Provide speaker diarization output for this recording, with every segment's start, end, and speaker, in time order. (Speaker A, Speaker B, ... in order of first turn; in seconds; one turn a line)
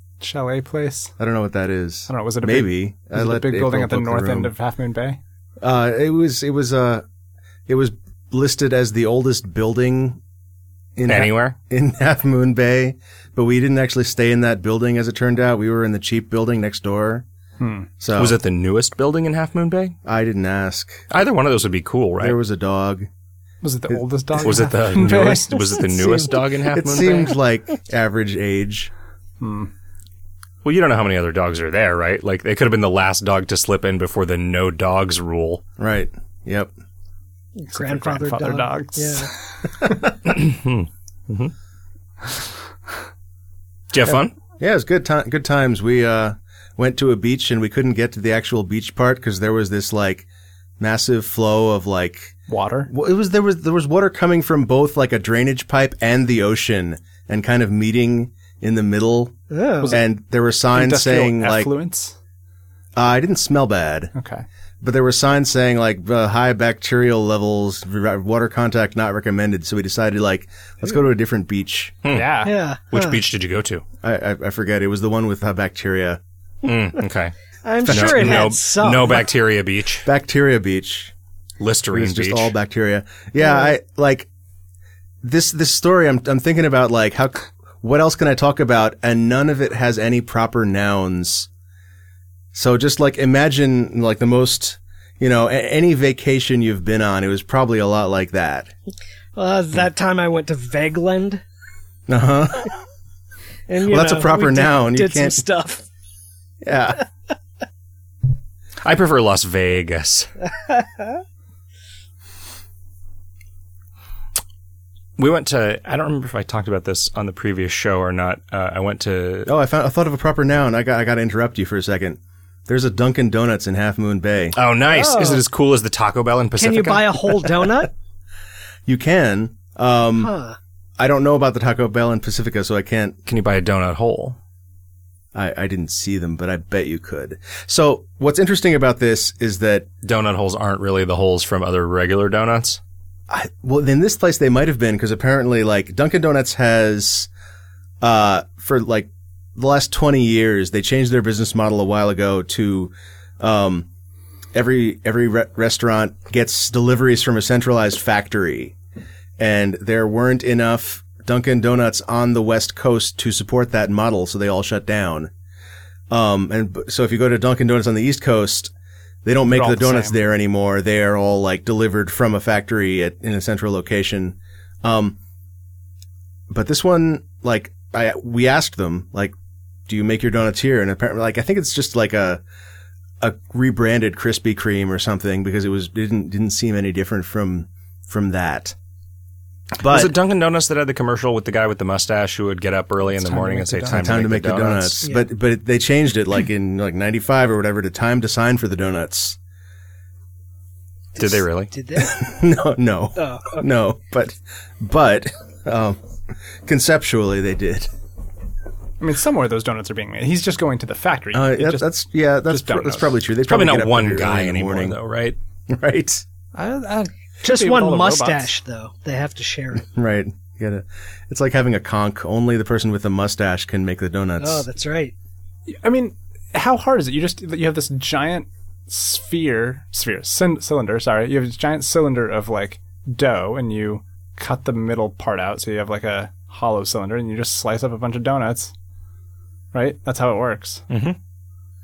Speaker A: 0.2-1.1
Speaker B: 1.2-4.5
Speaker A: 2.1-5.2
Speaker B: 5.6-7.0
Speaker B: 7.7-10.2
Speaker B: 11.0-17.3
Speaker C: 11.1-11.6
Speaker A: 17.6-17.9
Speaker B: 18.0-18.4
Speaker C: 18.1-20.0
Speaker B: 20.1-21.1
Speaker C: 21.1-22.4
Speaker B: 22.2-23.1
Speaker A: 23.6-26.1
Speaker C: 24.4-27.3
Speaker B: 26.0-28.9
Speaker A: 29.4-29.7
Speaker C: 30.6-35.6
Speaker B: 35.8-36.7
Speaker D: 37.6-39.3
Speaker A: 37.7-40.1
Speaker C: 40.2-41.5
Speaker C: 43.9-44.4
Speaker B: 44.6-50.2
Speaker B: 50.8-52.4
Speaker A: 52.5-52.9
Speaker B: 52.9-59.4
Speaker D: 59.5-60.0
Speaker B: 59.9-61.7
Speaker A: 60.7-62.2
Speaker B: 63.0-64.1
Speaker A: 64.1-64.5
Speaker B: 64.8-72.0
Speaker C: 72.0-73.8
Speaker A: 72.1-72.5
Speaker D: 72.4-73.2
Speaker B: 74.0-76.2
Speaker C: 76.7-77.3
Speaker D: 77.6-79.2
Speaker C: 77.9-80.1
Speaker B: 77.9-78.5
Speaker B: 80.0-81.1
Speaker C: 81.6-82.5
Speaker B: 81.9-84.3
Speaker D: 83.4-83.7
Speaker B: 85.2-91.5
Speaker B: 92.5-98.7
Speaker D: 99.4-101.4
Speaker B: 102.1-102.8
Speaker D: 103.7-105.8
Speaker B: 103.8-105.4
Speaker B: 106.6-107.0
Speaker C: 108.8-110.3
Speaker C: 115.2-119.5
Speaker B: 119.5-124.6
Speaker C: 124.6-127.5
Speaker D: 124.9-125.4
Speaker D: 126.6-127.9
Speaker B: 128.9-130.3
Speaker D: 130.2-130.6
Speaker B: 131.0-133.2
Speaker C: 133.3-134.4
Speaker B: 135.3-139.9
Speaker C: 140.0-142.8
Speaker B: 143.3-147.3
Speaker B: 148.0-153.9
Speaker B: 154.5-158.8
Speaker B: 159.4-165.3
Speaker B: 166.1-168.7
Speaker B: 169.2-175.2
Speaker A: 169.5-170.2
Speaker B: 176.5-179.3
Speaker B: 179.9-182.4
Speaker B: 183.2-188.8
Speaker B: 189.8-190.1
Speaker C: 189.8-195.0
Speaker A: 193.1-194.2
Speaker B: 193.9-199.4
Speaker D: 201.2-202.2
Speaker C: 201.2-201.7
Speaker B: 202.0-206.0
Speaker D: 203.2-203.7
Speaker B: 206.6-207.9
Speaker A: 209.0-211.9
Speaker B: 211.3-215.0
Speaker A: 212.5-213.2
Speaker C: 213.5-215.4
Speaker B: 215.7-216.2
Speaker A: 216.5-218.5
Speaker D: 217.4-219.9
Speaker B: 219.8-224.7
Speaker D: 224.4-225.1
Speaker A: 225.7-238.7
Speaker A: 239.7-240.8
Speaker C: 240.9-241.2